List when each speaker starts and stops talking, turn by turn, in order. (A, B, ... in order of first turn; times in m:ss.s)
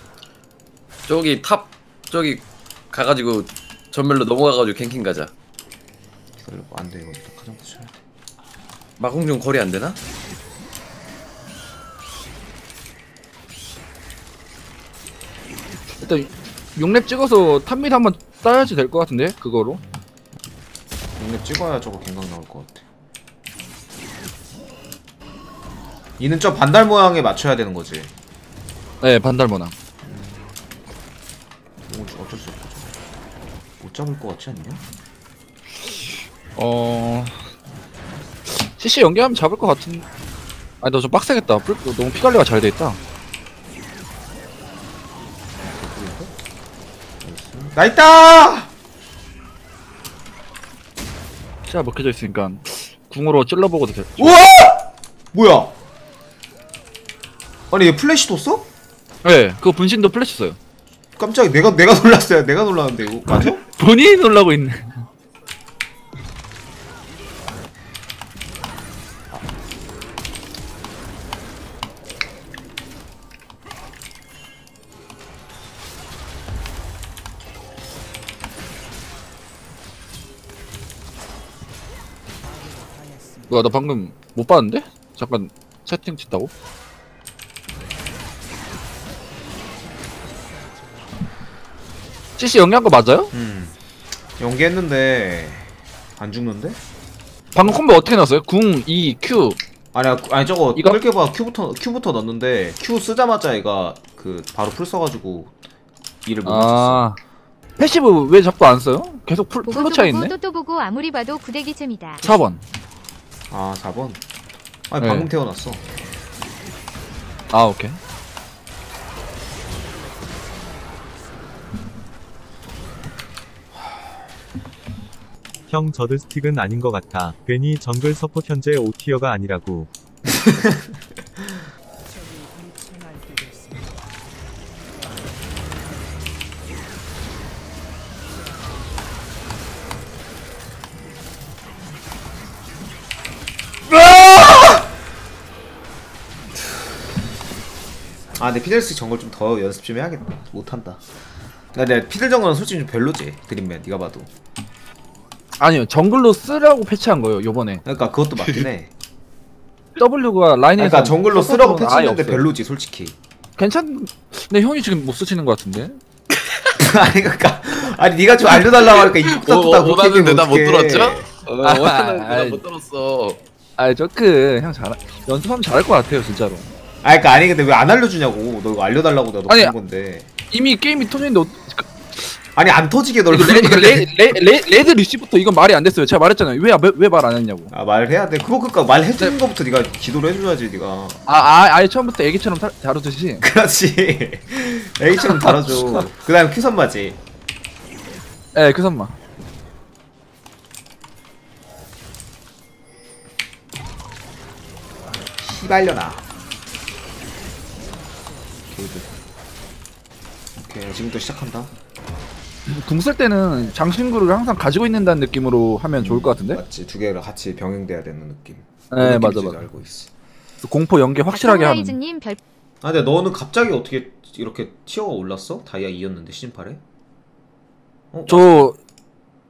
0:01.1-0:05.3 A
0:06.4-0:08.0 B
0:09.0-0:10.0 A
0:16.0-0:19.8 C
0:21.2-0:22.9 B
0:26.2-0:28.1 B
0:29.0-0:29.7 C
0:30.0-0:30.6 B
0:31.9-0:33.0 B
0:33.8-0:34.8 B
0:36.6-0:37.4 C
0:38.5-0:40.1 C
0:40.8-0:43.0 C
0:45.6-0:46.3 B
0:47.2-0:48.7 B
0:51.7-0:54.4 C
0:54.2-0:55.8 B
0:57.7-0:58.7 B
0:59.2-1:00.6 C
1:01.2-1:03.6 B
1:03.3-1:05.0 C
1:23.5-1:26.5 C
1:32.4-1:33.3 C
1:33.3-1:33.8 B
1:34.4-1:36.8 B
1:37.5-1:39.6 C
1:39.9-1:45.6 B
1:40.8-1:41.0 C
1:46.2-1:47.1 B
1:46.4-1:47.2 C
1:47.8-1:50.4 C
1:49.7-1:52.2 D
1:52.2-1:52.6 C
1:53.5-1:54.2 B
1:54.9-1:55.8 B
1:55.0-1:55.3 C
1:57.5-1:58.0 C
2:05.7-2:09.9 E
2:28.4-2:31.0 B
2:31.7-2:34.3 B
2:35.6-2:37.8 C
2:37.8-2:38.9 B
2:40.0-2:42.5 C
2:40.8-2:43.2 B
2:43.6-2:46.0 C
2:46.8-2:51.3 B
2:48.7-2:53.4 A
2:51.6-2:52.6 C
2:53.8-2:56.7 C
2:57.0-3:00.3 B
2:59.5-2:59.7 C
3:00.5-3:02.3 C
3:02.6-3:04.3 B
3:03.3-3:07.7 C
3:07.7-3:11.2 B
3:11.3-3:13.4 C
3:13.4-3:17.2 B
3:15.1-3:16.0 C
3:18.5-3:19.2 C
3:25.4-3:26.3 B
3:28.7-3:29.1 B
3:30.6-3:31.7 B
3:32.7-3:36.6 C
3:36.0-3:40.1 B
3:38.9-3:39.6 C
3:40.6-3:42.0 C
3:41.3-3:42.4 D
3:42.8-3:46.8 B
3:48.1-3:48.5 B
3:48.3-3:48.8 C